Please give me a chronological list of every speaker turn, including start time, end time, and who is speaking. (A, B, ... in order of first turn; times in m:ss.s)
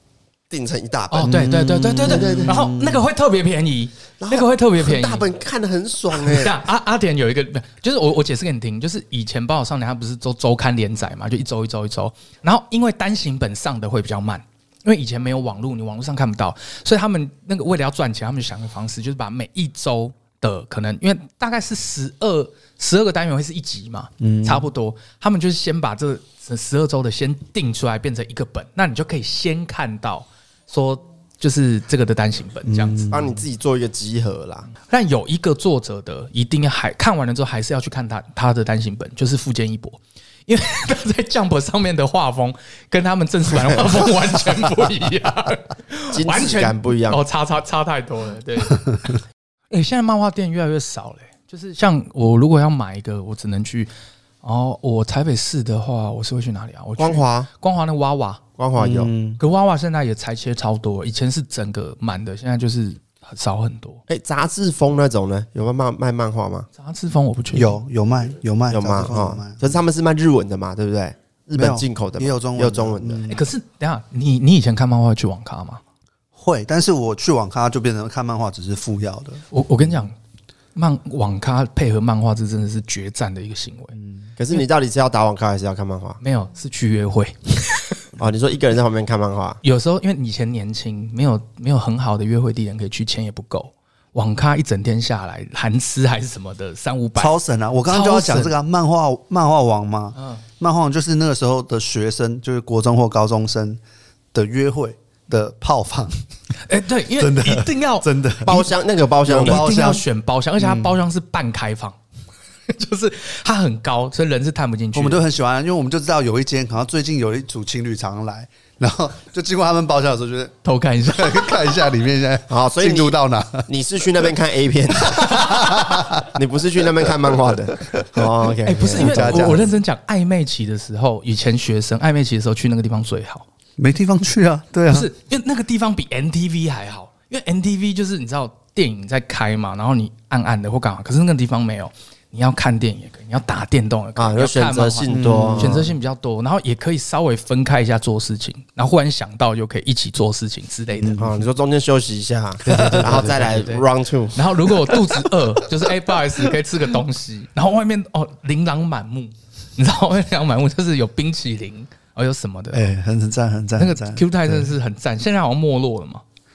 0:00.5-0:01.5 A
0:01.1-0:05.2 B
0:01.2-0:03.0 C
0:02.0-0:02.6 A
0:04.2-0:06.6 A
0:06.1-0:33.1 B
0:24.2-0:24.7 C
0:32.6-0:33.4 C
0:33.1-0:34.7 A
0:34.8-0:49.2 B
0:46.1-0:47.2 A
0:49.7-0:53.9 B
0:54.4-0:58.4 B
0:57.0-0:57.5 A
0:58.6-0:59.1 A
0:58.8-0:59.4 C
0:59.4-1:04.0 B
1:04.1-1:06.7 A
1:06.8-1:07.8 B
1:07.5-1:09.7 C
1:08.7-1:13.4 A
1:11.6-1:13.4 C
1:13.3-1:15.8 B
1:16.3-1:19.4 C
1:19.5-1:20.2 B
1:20.8-1:23.9 B
1:23.9-1:24.3 C
1:24.4-1:26.2 A
1:26.2-1:28.0 B
1:28.2-1:29.6 A
1:29.6-1:37.4 B
1:37.2-1:43.8 C
1:37.9-1:38.5 B
1:40.2-1:40.4 B
1:44.3-1:46.2 C
1:46.7-1:48.1 B
1:47.2-1:48.7 C
1:48.4-1:49.6 A
1:49.2-1:50.0 C
1:49.3-1:52.0 B
1:50.6-1:51.0 C
1:52.7-1:55.2 B
1:54.9-2:00.6 C
2:00.6-2:01.6 B
2:01.1-2:03.7 C
2:02.5-2:09.6 A
2:05.0-2:06.3 C
2:07.7-2:09.7 C
2:08.6-2:13.5 B
2:13.8-2:15.1 C
2:14.9-2:31.3 B
2:24.2-2:25.9 A
2:25.1-2:25.9 C
2:31.0-2:31.4 C
2:31.2-2:34.4 A
2:32.6-2:42.9 B
2:32.7-2:33.4 C
2:34.9-2:35.2 C
2:42.7-2:44.8 C
2:43.8-2:46.2 B